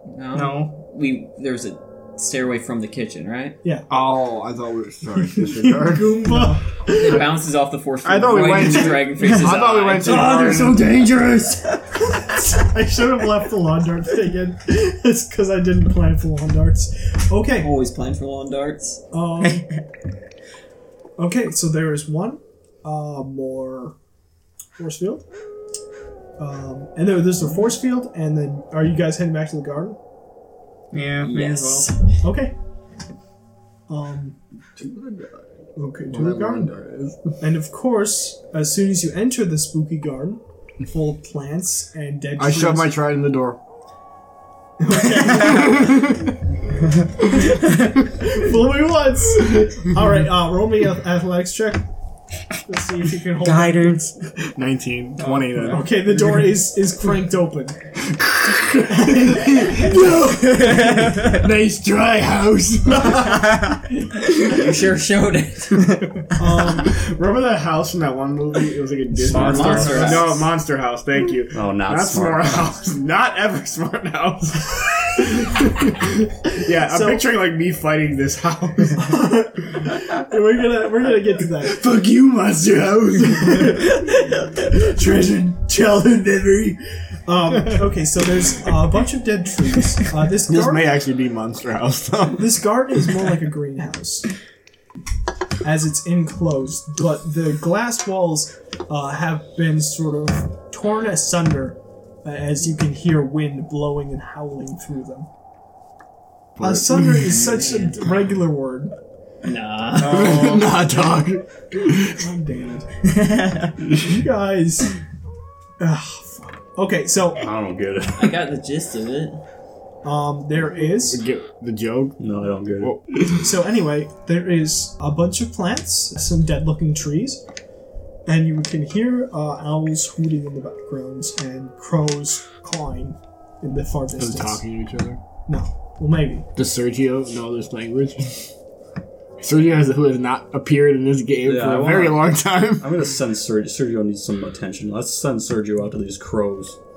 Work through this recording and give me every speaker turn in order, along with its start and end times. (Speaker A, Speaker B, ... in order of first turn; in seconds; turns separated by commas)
Speaker A: 0.1-3.6, Speaker B: 0.3-0.7, Speaker C: 3.9-6.5, Speaker D: 5.4-7.2, Speaker A: 6.9-11.6, Speaker C: 8.0-11.0, Speaker D: 12.3-17.7, Speaker A: 17.6-19.0, Speaker D: 19.1-19.7, Speaker D: 21.2-23.9, Speaker D: 24.8-25.2, Speaker D: 26.4-30.0, Speaker B: 30.9-31.9, Speaker A: 31.2-32.0, Speaker D: 32.2-32.6, Speaker D: 33.9-34.4, Speaker C: 34.8-35.5, Speaker D: 35.8-36.7, Speaker C: 36.1-37.3, Speaker D: 37.4-43.0, Speaker C: 42.4-43.6, Speaker D: 44.8-46.2, Speaker C: 45.8-46.2, Speaker D: 47.9-51.9, Speaker D: 52.7-54.1, Speaker B: 53.4-54.2, Speaker C: 54.5-56.1, Speaker B: 55.2-55.9, Speaker D: 55.7-57.8, Speaker C: 58.2-63.6, Speaker D: 58.9-59.9, Speaker B: 63.4-63.8, Speaker A: 64.3-65.8, Speaker D: 66.4-66.9, Speaker C: 66.7-79.2, Speaker E: 69.2-70.4, Speaker A: 69.3-70.5, Speaker E: 71.5-72.7, Speaker D: 76.7-77.3, Speaker D: 79.0-81.8, Speaker C: 81.6-86.8, Speaker D: 87.3-90.9, Speaker C: 90.5-92.7, Speaker D: 92.3-94.3, Speaker D: 95.6-105.3, Speaker C: 106.6-107.5, Speaker D: 106.6-108.9, Speaker A: 107.4-108.0, Speaker A: 109.4-110.6, Speaker C: 110.0-112.2, Speaker D: 112.1-112.9, Speaker B: 113.1-113.8, Speaker D: 113.9-114.9, Speaker D: 115.8-117.5, Speaker E: 117.4-118.4, Speaker A: 118.2-119.4, Speaker D: 120.0-121.2, Speaker C: 120.7-122.2, Speaker E: 122.2-123.0, Speaker C: 122.8-123.4, Speaker D: 123.4-127.4, Speaker D: 128.3-134.6, Speaker C: 134.2-135.2, Speaker D: 135.5-136.5, Speaker C: 136.6-138.5, Speaker C: 139.4-143.1, Speaker E: 141.4-146.8